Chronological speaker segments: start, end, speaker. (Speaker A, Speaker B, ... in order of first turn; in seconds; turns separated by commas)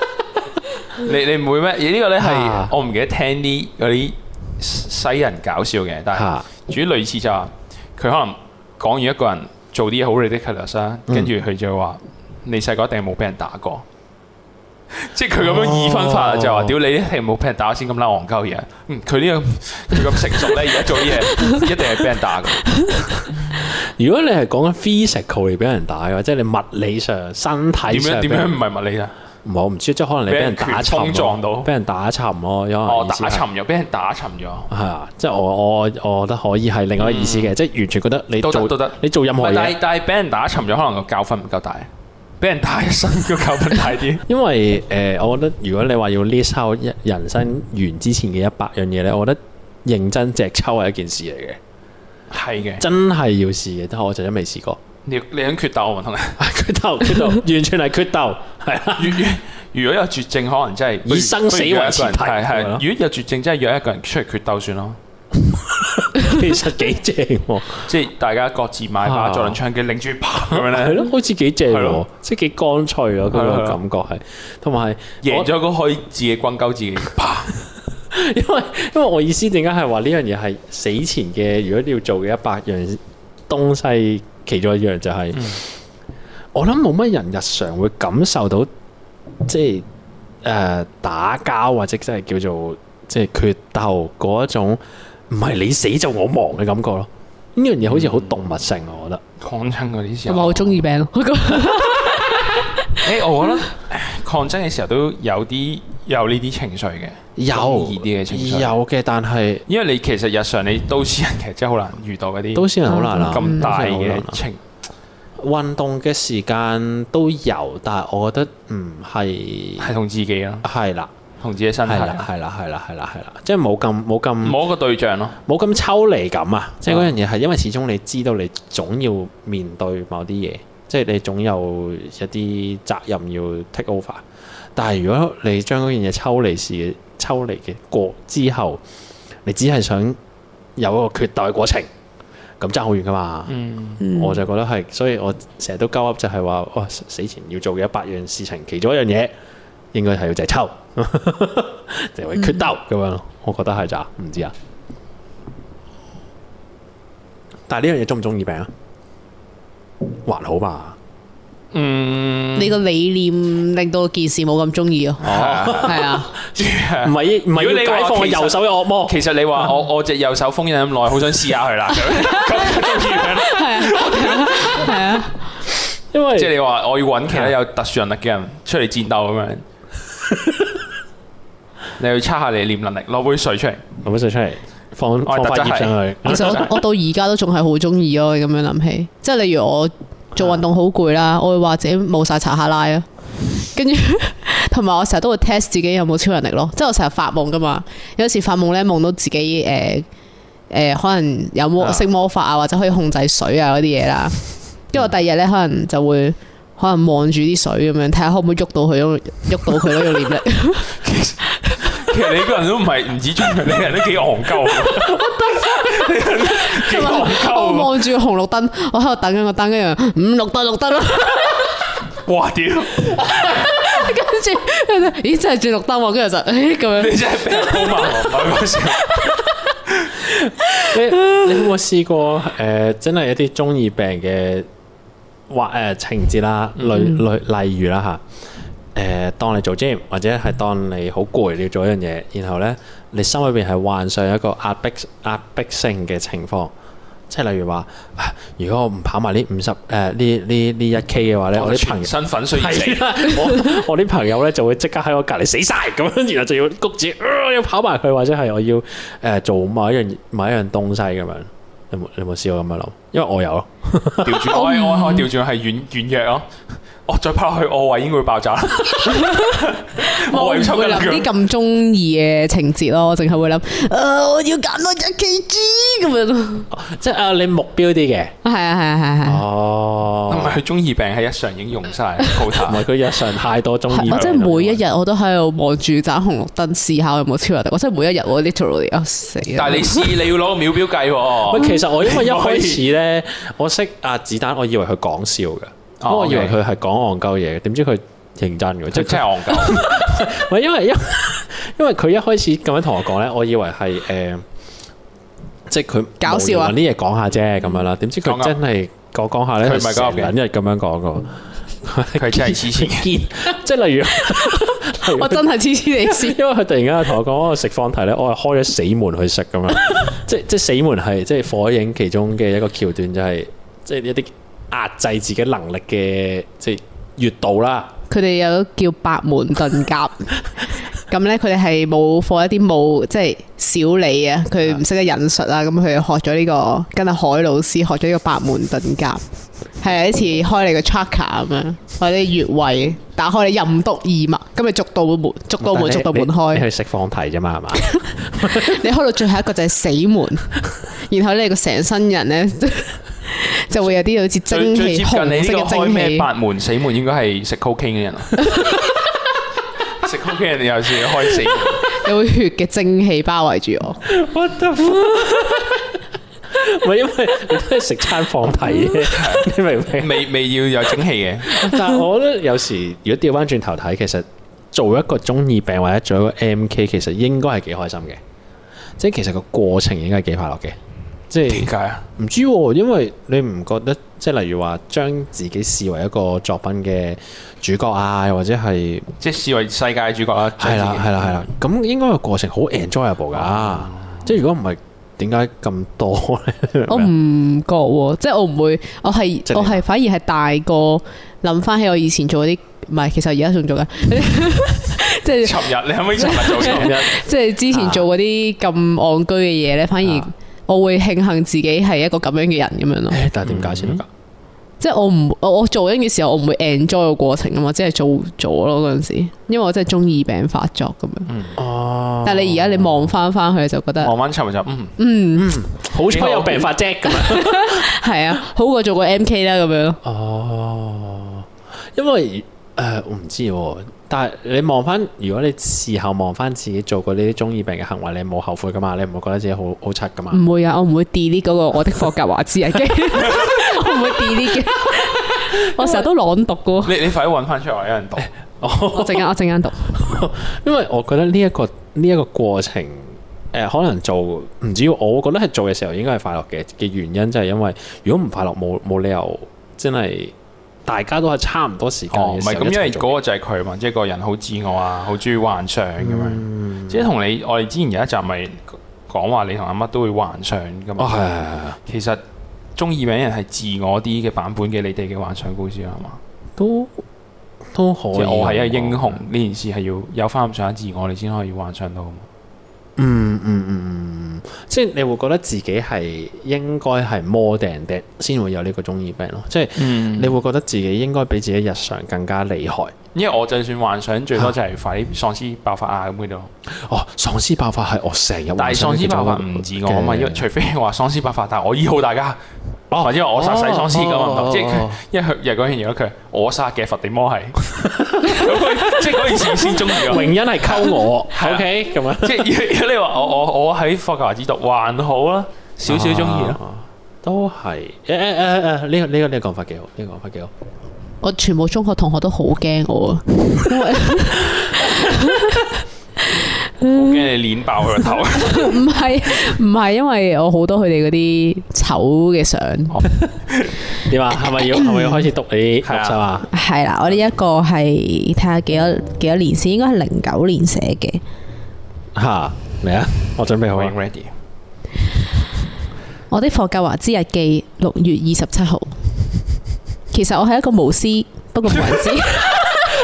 Speaker A: 1.0-13.8, Speaker B: 2.2-2.7, Speaker B: 6.1-6.5, Speaker A: 14.9-23.1, Speaker B: 15.4-16.8, Speaker B: 23.5-28.5, Speaker A: 27.9-29.1, Speaker B: 29.4-33.5, Speaker A: 30.3-31.7, Speaker A: 32.9-34.7, Speaker B: 34.7-39.8, Speaker A: 37.0-37.5, Speaker A: 38.4-41.9, Speaker A: 42.4-44.2, Speaker B: 44.3-51.6, Speaker A: 52.3-52.8, Speaker B: 52.8-54.8, Speaker A: 55.0-56.4, Speaker B: 56.4-59.3, Speaker A: 59.0-65.0, Speaker B: 61.0-62.8, Speaker B: 65.3-67.9, Speaker A: 67.8-71.1, Speaker B: 69.0-69.6, Speaker B: 70.5-75.5, Speaker A: 71.7-72.0, Speaker A: 73.3-73.8, Speaker A: 75.2-77.5, Speaker B: 78.1-85.7, Speaker B: 86.5-88.7, Speaker B: 89.5-89.9, Speaker B: 90.4-99.2, Speaker A: 97.9-98.3, Speaker A: 99.4-100.8, Speaker C: 100.3-103.0, Speaker A: 103.0-108.7, Speaker B: 107.4-109.7, Speaker A: 109.7-114.6, Speaker B: 112.5-114.4, Speaker C: 112.9-113.7, Speaker B: 115.4-119.9, Speaker A: 119.8-120.7, Speaker B: 120.6-121.1, Speaker A: 121.4-122.3, Speaker B: 121.9-124.6, Speaker A: 124.4-125.4, Speaker B: 125.5-134.2, Speaker B: 134.8-138.8, Speaker B: 139.4-140.2, Speaker B: 140.8-141.9, Speaker B: 142.6-143.6, Speaker A: 143.5-144.0, Speaker C: 144.0-144.4, Speaker B: 144.1-149.3, Speaker B: 149.9-154.5, Speaker B: 157.7-158.7, Speaker B: 160.2-161.0, Speaker A: 161.7-162.8, Speaker C: 162.6-166.3, Speaker B: 165.2-169.2, Speaker A: 165.2-175.0, Speaker C: 172.1-175.3, Speaker B: 176.1-176.5, Speaker A: 176.3-179.6, Speaker B: 177.3-177.5, Speaker A: 182.0-183.8, Speaker B: 184.0-186.7, Speaker A: 185.2-186.8, Speaker C: 186.3-193.1, Speaker C: 193.6-200.1, Speaker C: 200.7-204.4, Speaker C: 204.9-210.9, Speaker A: 211.0-218.1, Speaker C: 215.1-221.8, Speaker A: 222.2-223.2, Speaker C: 223.2-228.1, Speaker A: 227.0-229.2, Speaker B: 230.3-234.7, Speaker C: 230.8-231.4, Speaker B: 235.5-238.2, Speaker A: 236.8-237.1, Speaker B: 238.9-246.7, Speaker B: 247.3-264.5, Speaker A: 251.5-253.4, Speaker A: 264.2-266.5, Speaker C: 264.5-265.3, Speaker A: 267.1-271.3, Speaker C: 269.0-276.7, Speaker B: 276.7-278.3, Speaker C: 278.4-279.4, Speaker B: 279.2-280.6, Speaker A: 280.3-282.9, Speaker B: 282.6-284.8, Speaker C: 283.9-290.1, Speaker A: 289.5-292.8, Speaker B: 291.5-304.4, Speaker A: 296.0-296.6, Speaker A: 298.9-299.9, Speaker B: 305.7-327.9, Speaker C: 306.2-306.8, Speaker A: 308.2-308.6, Speaker A: 309.6-310.3, Speaker A: 312.1-313.1, Speaker C: 314.2-316.4, Speaker C: 328.1-330.4, Speaker C: 331.1-339.2, Speaker C: 339.8-346.6, Speaker B: 345.6-348.8, Speaker C: 347.8-356.3, Speaker A: 354.5-358.5, Speaker A: 360.0-361.8, Speaker C: 361.9-364.0, Speaker B: 364.1-366.0, Speaker B: 366.5-370.3, Speaker A: 369.0-371.7, Speaker B: 371.5-378.2, Speaker B: 379.0-380.8, Speaker B: 381.3-389.1, Speaker A: 381.5-382.1, Speaker A: 389.2-391.4, Speaker B: 390.6-397.1, Speaker A: 393.6-394.2, Speaker C: 396.9-413.2, Speaker B: 399.5-399.8, Speaker A: 405.4-407.1, Speaker B: 406.6-407.1, Speaker B: 407.7-408.1, Speaker B: 413.1-414.1, Speaker A: 413.4-414.0, Speaker C: 414.8-421.3, Speaker A: 421.3-421.6, Speaker B: 421.6-423.1, Speaker C: 422.2-424.1, Speaker A: 424.0-425.0, Speaker C: 425.0-425.6, Speaker B: 425.4-427.9, Speaker A: 426.0-426.7, Speaker C: 427.1-430.0, Speaker B: 430.0-440.4, Speaker C: 440.3-447.0, Speaker A: 443.2-443.7, Speaker A: 446.8-448.3, Speaker B: 448.2-449.3, Speaker C: 448.9-449.9, Speaker B: 449.9-460.3, Speaker B: 460.9-463.2, Speaker A: 462.1-471.2, Speaker B: 466.0-467.1, Speaker B: 471.0-471.8, Speaker A: 471.9-472.2, Speaker A: 472.8-476.2, Speaker B: 476.6-477.0, Speaker B: 477.7-479.2, Speaker A: 478.1-482.3, Speaker B: 483.0-492.9, Speaker A: 489.8-490.4, Speaker A: 493.1-496.5, Speaker B: 496.7-500.4, Speaker A: 498.6-502.4, Speaker B: 502.9-505.0, Speaker A: 503.0-510.3, Speaker B: 507.9-512.5, Speaker A: 511.4-516.6, Speaker B: 515.9-520.5, Speaker C: 521.2-525.7, Speaker C: 526.3-527.2, Speaker A: 526.8-528.8, Speaker C: 528.3-533.0, Speaker A: 532.9-533.7, Speaker B: 534.0-536.5, Speaker C: 534.5-535.2, Speaker A: 535.8-536.2, Speaker C: 536.5-541.2, Speaker B: 542.1-543.9, Speaker A: 543.7-544.3, Speaker C: 546.3-549.0, Speaker C: 550.1-552.8